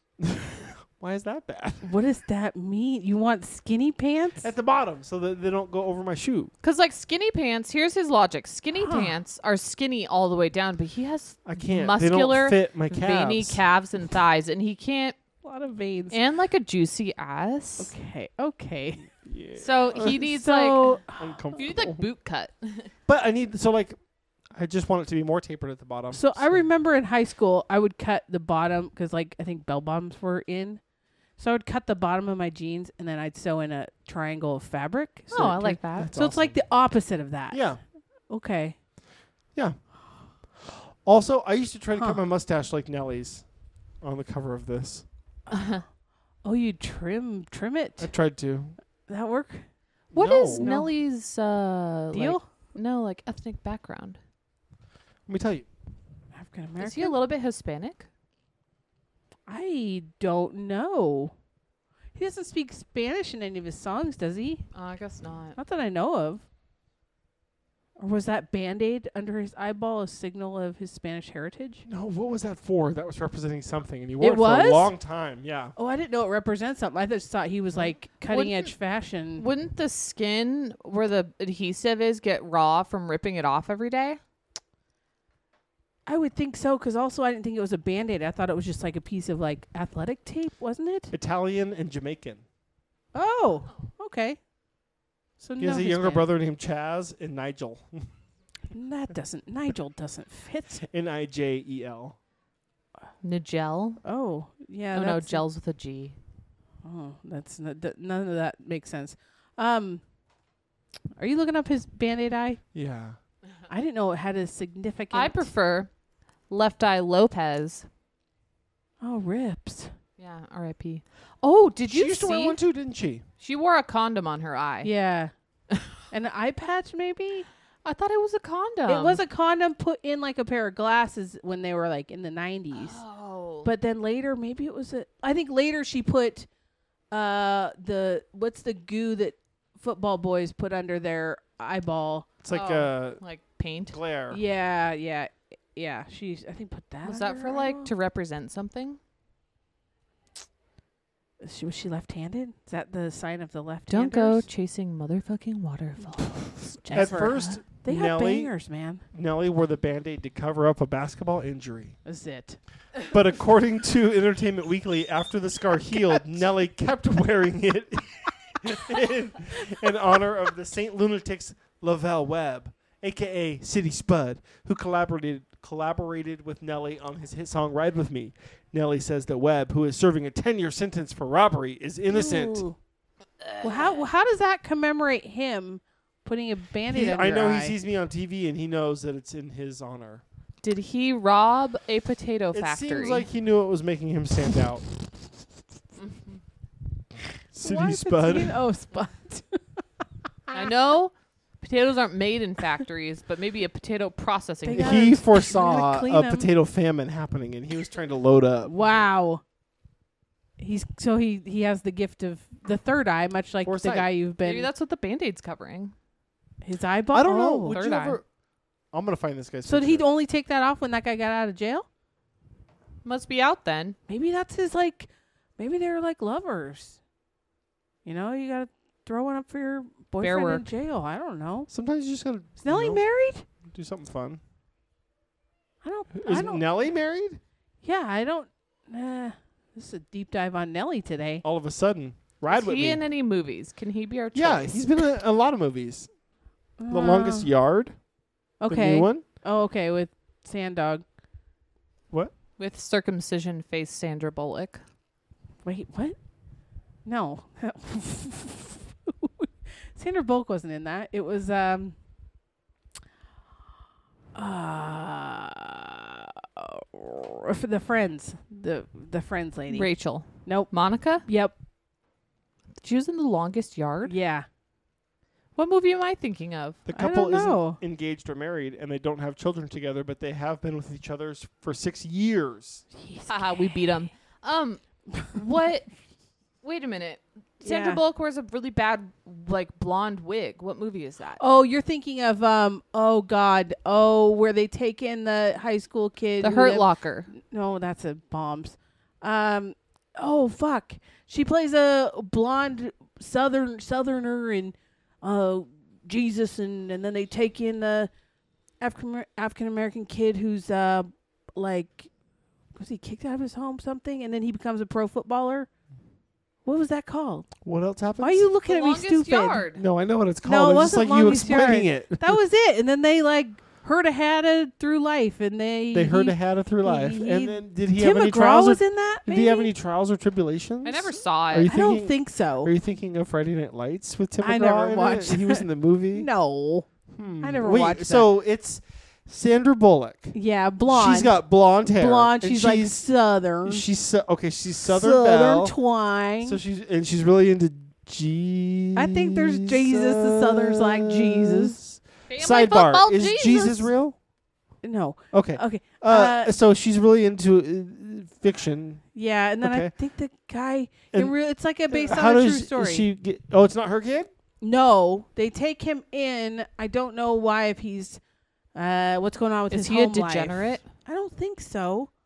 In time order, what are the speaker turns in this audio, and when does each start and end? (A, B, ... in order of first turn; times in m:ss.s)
0:00.2-0:01.9 A
0:01.8-0:04.5 B
0:04.4-0:06.5 A
0:06.6-0:15.2 C
0:08.7-0:09.2 B
0:11.4-0:13.6 A
0:15.4-0:16.2 B
0:16.1-0:17.9 C
0:17.8-0:19.1 B
0:19.2-0:20.2 A
0:19.6-0:21.0 C
0:20.0-0:21.6 B
0:21.2-0:22.0 A
0:21.5-0:22.9 C
0:23.1-0:24.0 A
0:24.5-0:26.6 A
0:26.1-0:30.8 B
0:31.4-0:37.7 B
0:35.3-0:36.1 C
0:35.4-0:36.6 A
0:37.5-0:37.8 A
0:38.3-0:38.8 B
0:40.6-0:43.4 A
0:41.9-0:42.2 B
0:44.0-0:45.0 A
0:45.5-0:45.8 B
0:45.5-0:45.8 C
0:46.4-0:48.1 B
0:48.0-0:48.8 A
0:49.1-0:49.6 B
0:50.1-0:50.7 A
0:50.1-0:54.2 C
0:50.5-0:50.9 B
0:52.1-0:52.4 B
0:55.3-0:55.7 A
0:56.3-0:57.2 B
0:56.8-0:58.1 C
0:59.5-1:01.3 B
1:02.1-1:04.6 B
1:04.7-1:05.6 C
1:05.6-1:06.4 B
1:08.0-1:11.8 B
1:11.9-1:15.7 A
1:14.2-1:14.9 B
1:15.8-1:19.4 B
1:18.3-1:18.7 C
1:19.4-1:24.2 C
1:26.1-1:31.1 B
1:31.1-1:32.4 A
1:33.1-1:34.4 B
1:35.4-1:36.3 B
1:35.6-1:38.1 A
1:38.7-1:40.8 B
1:40.8-1:42.2 A
1:43.2-1:44.0 C
1:44.0-1:45.4 B
1:44.9-1:46.2 C
1:46.8-1:50.0 B
1:51.2-1:52.6 B
1:52.7-1:53.2 A
1:53.7-1:55.5 B
1:55.1-1:55.9 C
1:56.5-1:57.8 C
1:59.0-1:59.9 B
2:00.2-2:02.6 C
2:01.9-2:03.2 A
2:03.4-2:04.9 C
2:04.8-2:05.3 B
2:06.1-2:07.5 B
2:07.8-2:09.2 C
2:08.8-2:13.0 B
2:12.7-2:13.7 C
2:13.6-2:16.5 B
2:17.1-2:22.3 B
2:22.4-2:23.2 A
2:22.5-2:24.0 C
2:23.9-2:24.4 A
2:24.3-2:27.9 B
2:27.0-2:29.0 C
2:31.4-2:34.4 B
2:33.9-2:37.6 C
2:36.1-2:39.0 B
2:36.9-2:38.5 A
2:39.1-2:42.0 A
2:42.0-2:42.6 B
2:43.0-3:02.6 A
3:02.1-3:02.8 B
3:03.4-3:04.0 C
3:03.6-3:07.7 B
3:06.9-3:10.2 A
3:10.6-3:13.3 C
3:12.5-3:14.8 A
3:16.0-3:16.4 C
3:17.5-3:18.6 A
3:17.6-3:19.8 B
3:20.5-3:25.2 C
3:24.6-3:26.5 B
3:24.8-3:28.7 A
3:28.6-3:29.4 B
3:30.6-3:34.7 B
3:33.6-3:34.1 A
3:34.4-3:35.9 C
3:36.6-3:38.1 B
3:37.1-3:38.2 A
3:38.9-3:40.0 A
3:39.6-3:41.8 B
3:43.0-3:44.0 C
3:44.1-3:47.0 B
3:48.0-3:51.7 B
3:50.2-3:50.7 C
3:51.7-3:53.0 A
3:52.6-3:53.4 B
3:53.6-3:54.4 A
3:55.8-3:56.7 B
3:56.1-3:57.4 A
3:57.8-4:01.4 B
4:01.4-4:03.0 A
4:02.5-4:04.9 C
4:04.3-4:06.1 A
4:06.8-4:07.5 B
4:06.9-4:08.0 A
4:08.6-4:11.0 B
4:08.7-4:09.2 A
4:12.6-4:14.8 C
4:15.6-4:16.2 B
4:17.0-4:22.0 B
4:24.3-4:29.9 B
4:29.7-4:31.2 C
4:30.4-4:30.7 B
4:31.2-4:31.5 B
4:32.8-4:34.2 C
4:34.0-4:34.4 B
4:35.6-4:36.8 C
4:36.8-4:42.8 A
4:37.0-4:37.8 B
4:42.9-4:43.9 B
4:43.3-4:45.9 C
4:46.6-4:51.4 C
4:47.6-4:48.0 B
4:51.4-5:08.1 B
4:56.4-4:57.3 C
5:08.8-5:12.1 B
5:12.8-5:15.7 B
5:16.6-5:17.5 B
5:17.6-5:18.4 A
5:18.2-5:19.6 B
5:18.7-5:19.8 C
5:19.7-5:22.4 A
5:20.4-5:29.7 B
5:25.9-5:36.3 A
5:30.8-5:31.7 C
5:31.7-5:32.7 B
5:34.4-5:36.9 B
5:37.1-5:40.4 A
5:37.4-5:38.3 B
5:40.3-5:43.8 B
5:40.9-5:43.0 A
5:43.6-5:45.7 A
5:44.8-5:46.6 B
5:46.4-5:54.1 A
5:49.0-5:51.8 B
5:52.3-5:53.9 C
5:54.8-5:56.5 B
5:55.3-5:59.0 A
5:59.1-6:03.1 B
5:59.6-5:59.9 A
6:01.9-6:04.3 A
6:04.6-6:08.2 B
6:08.7-6:12.1 B
6:09.7-6:10.8 C